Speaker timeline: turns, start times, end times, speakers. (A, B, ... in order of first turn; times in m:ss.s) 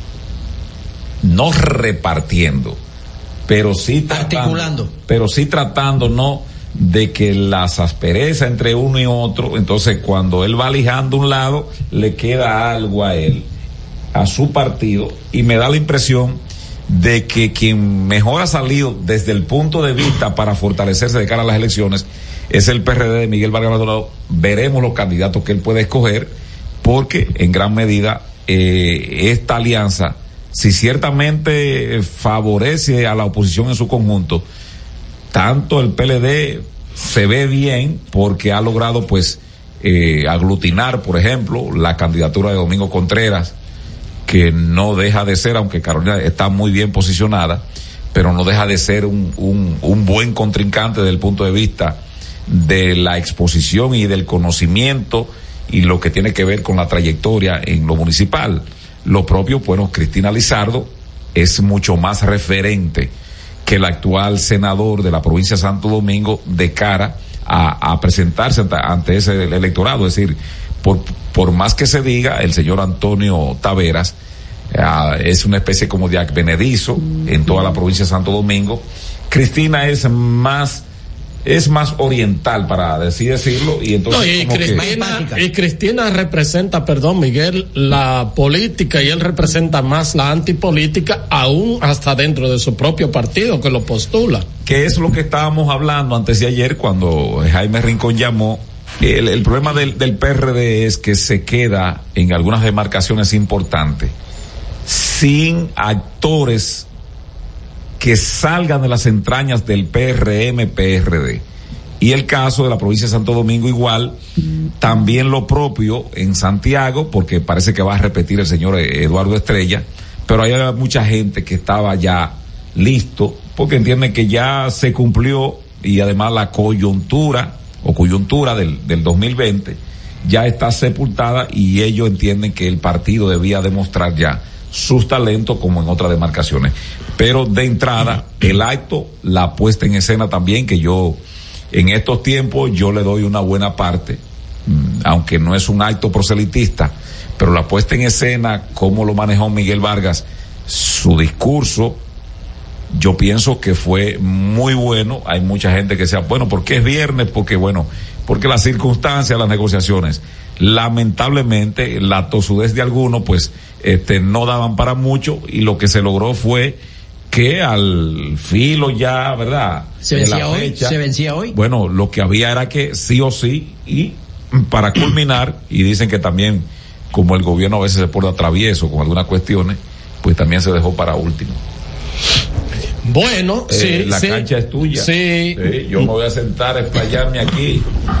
0:01.2-0:02.8 A
0:03.5-0:13.5 A
0:04.1-0:04.9 B
0:14.1-0:34.4 A
0:35.3-0:43.5 A
0:44.2-1:03.1 A
1:03.6-1:14.1 A
1:14.7-1:20.8 A
1:21.4-1:24.9 A
1:24.1-1:34.4 C
1:24.7-1:25.4 B
1:34.6-1:44.1 A
1:44.8-1:46.8 A
1:48.0-1:51.4 A
1:52.0-1:54.2 A
1:54.8-2:21.2 A
2:21.7-2:32.0 A
2:32.9-2:46.8 A
2:47.3-2:51.0 A
2:50.0-2:51.5 B
2:51.5-3:01.6 A
3:03.0-3:06.1 C
3:03.7-3:07.8 A